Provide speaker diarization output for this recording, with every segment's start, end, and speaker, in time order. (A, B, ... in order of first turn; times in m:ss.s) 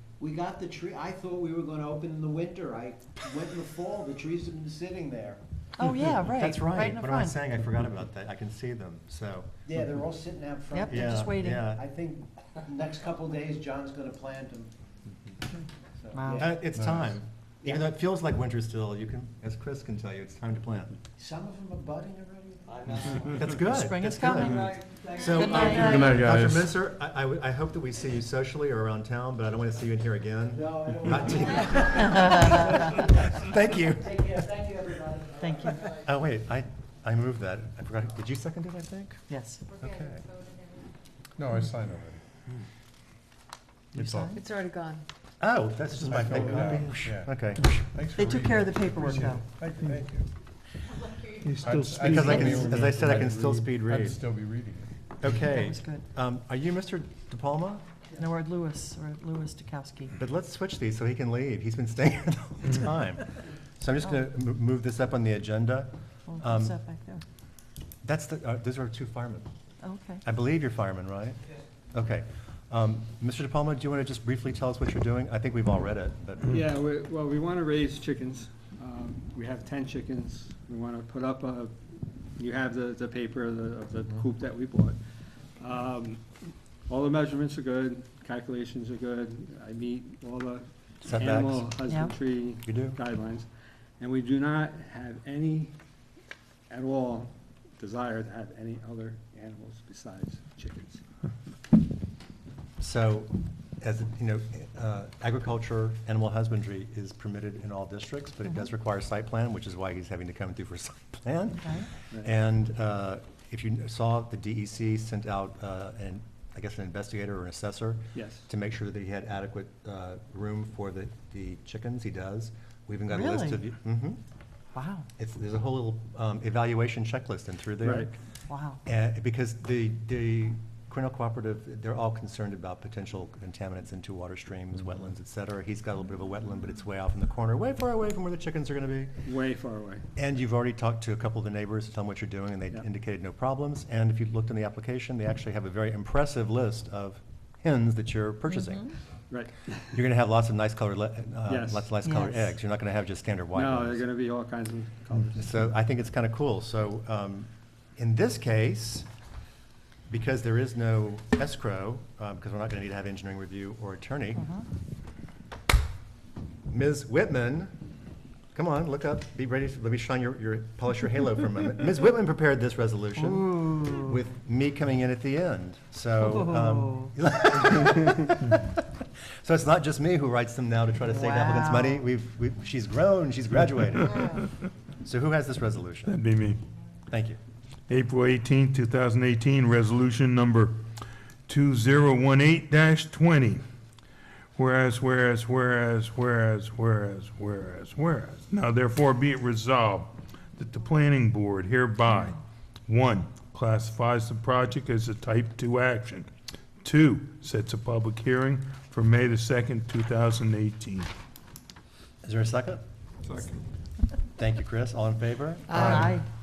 0:00.2-0:05.4 A
0:05.8-0:07.4 B
0:05.9-0:09.5 C
0:09.6-0:14.7 A
0:10.7-0:11.7 B
0:10.9-0:11.8 C
0:16.0-0:16.6 A
0:16.1-0:16.5 B
0:16.3-0:20.9 C
0:16.7-0:17.1 D
0:21.2-0:22.8 A
0:22.7-0:23.6 E
0:23.1-0:34.4 C
0:23.6-0:24.6 B
0:24.3-0:25.8 E
0:25.2-0:26.1 A
0:25.3-0:26.3 B
0:25.8-0:26.7 D
0:30.5-0:33.1 A
0:32.0-0:32.6 B
0:34.0-0:35.9 A
0:35.4-0:35.8 B
0:35.8-0:39.2 C
0:39.3-0:39.6 B
0:39.8-0:40.3 C
0:41.4-0:42.2 D
0:43.9-0:44.3 D
0:43.9-0:44.4 B
0:45.4-0:47.8 C
0:46.0-0:50.2 D
0:48.1-0:49.4 B
0:51.4-0:53.0 F
0:51.6-0:54.9 D
0:52.0-0:54.2 C
0:52.3-0:52.5 B
0:55.2-0:57.8 C
0:55.4-0:56.0 B
0:58.1-1:00.1 B
1:00.2-1:06.8 C
1:06.3-1:07.2 B
1:08.0-1:09.5 C
1:09.8-1:10.2 B
1:10.2-1:11.4 C
1:11.9-1:16.5 C
1:16.5-1:21.7 G
1:22.4-1:25.0 G
1:25.6-1:33.5 G
1:31.0-1:31.7 C
1:31.9-1:32.1 B
1:32.6-1:33.0 C
1:34.0-1:35.7 G
1:36.7-1:41.0 G
1:42.8-2:04.2 C
1:51.6-1:51.9 B
1:58.1-1:58.5 G
2:03.1-2:03.6 B
2:04.7-2:05.1 B
2:05.2-2:08.1 C
2:07.8-2:08.1 G
2:08.5-2:08.8 B
2:08.8-2:19.2 C
2:19.2-2:20.0 G
2:20.2-2:28.9 C
2:29.3-2:29.8 G
2:29.9-2:34.1 C
2:31.5-2:31.9 G
2:32.0-2:32.5 B
2:33.5-2:35.6 G
2:35.3-2:39.1 C
2:40.1-2:44.5 C
2:44.4-2:44.6 B
2:46.7-2:47.7 C
2:48.5-2:58.8 C
2:53.1-2:54.2 B
2:56.2-2:57.1 B
2:59.4-3:04.4 C
3:01.0-3:02.0 B
3:05.0-3:06.2 C
3:06.0-3:06.6 F
3:07.1-3:07.4 C
3:07.9-3:10.8 F
3:11.5-3:13.6 F
3:14.6-3:26.3 F
3:26.8-3:31.1 F
3:32.2-3:32.8 C
3:34.4-3:36.2 C
3:35.8-3:36.2 B